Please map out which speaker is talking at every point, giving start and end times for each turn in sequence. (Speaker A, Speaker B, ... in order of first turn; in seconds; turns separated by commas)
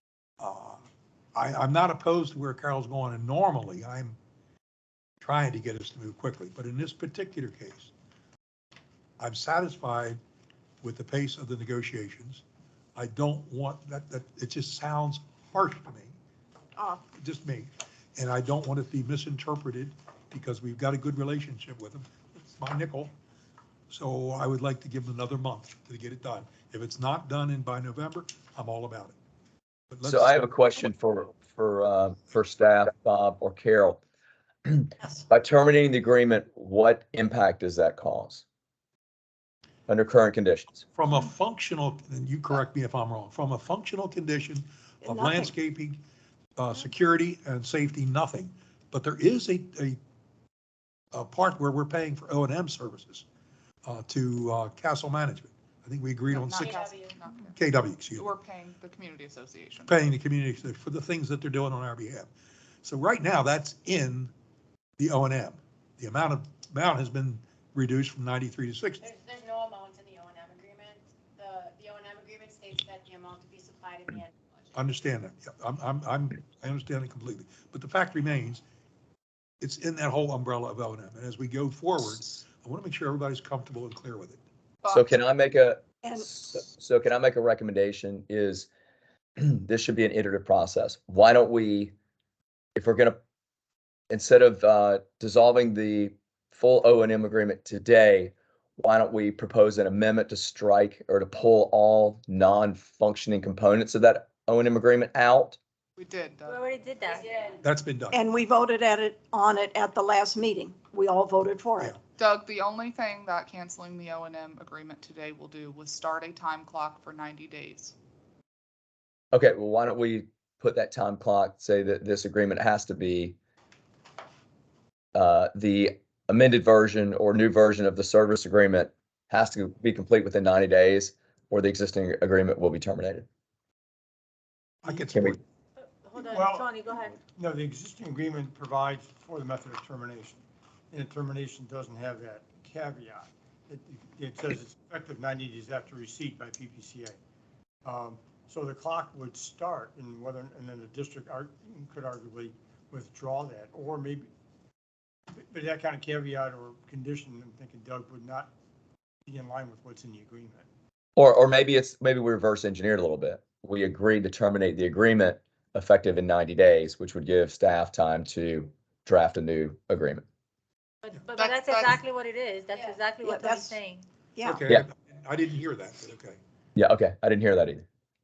Speaker A: 0.4-0.8, Speaker A: 1.3-4.2, Speaker A: 5.2-7.9, Speaker A: 9.2-10.2, Speaker A: 10.8-12.4, Speaker A: 12.9-16.2, Speaker A: 17.1-23.1, Speaker A: 23.9-29.1, Speaker A: 29.9-30.5, Speaker B: 30.0-34.0, Speaker B: 34.6-38.4, Speaker B: 39.9-40.8, Speaker A: 40.9-46.0, Speaker C: 45.0-45.5, Speaker A: 46.5-50.0, Speaker A: 51.1-53.2, Speaker A: 53.8-56.7, Speaker D: 56.3-60.0, Speaker E: 56.6-57.1, Speaker A: 57.5-58.3, Speaker A: 59.9-62.3, Speaker A: 62.8-64.3, Speaker A: 65.0-69.0, Speaker E: 69.0-74.8, Speaker A: 74.7-78.6, Speaker A: 79.6-84.4, Speaker D: 84.8-85.2, Speaker B: 84.9-88.7, Speaker B: 89.4-91.9, Speaker B: 92.8-93.2, Speaker B: 94.1-105.6, Speaker D: 106.0-106.6, Speaker F: 106.5-107.6, Speaker A: 107.6-108.2, Speaker C: 108.1-112.0, Speaker D: 112.2-117.9, Speaker B: 119.3-123.3, Speaker B: 125.1-133.2, Speaker A: 134.8-135.4, Speaker B: 135.0-135.4, Speaker F: 135.8-137.2, Speaker G: 136.2-136.7, Speaker G: 137.3-147.2, Speaker G: 147.8-154.3, Speaker G: 155.3-158.5, Speaker G: 159.2-160.7, Speaker B: 161.2-170.2, Speaker F: 171.0-174.1, Speaker D: 171.3-172.0, Speaker E: 172.7-173.0, Speaker C: 173.2-173.8, Speaker C: 174.3-174.6, Speaker A: 174.4-176.4, Speaker B: 176.7-177.8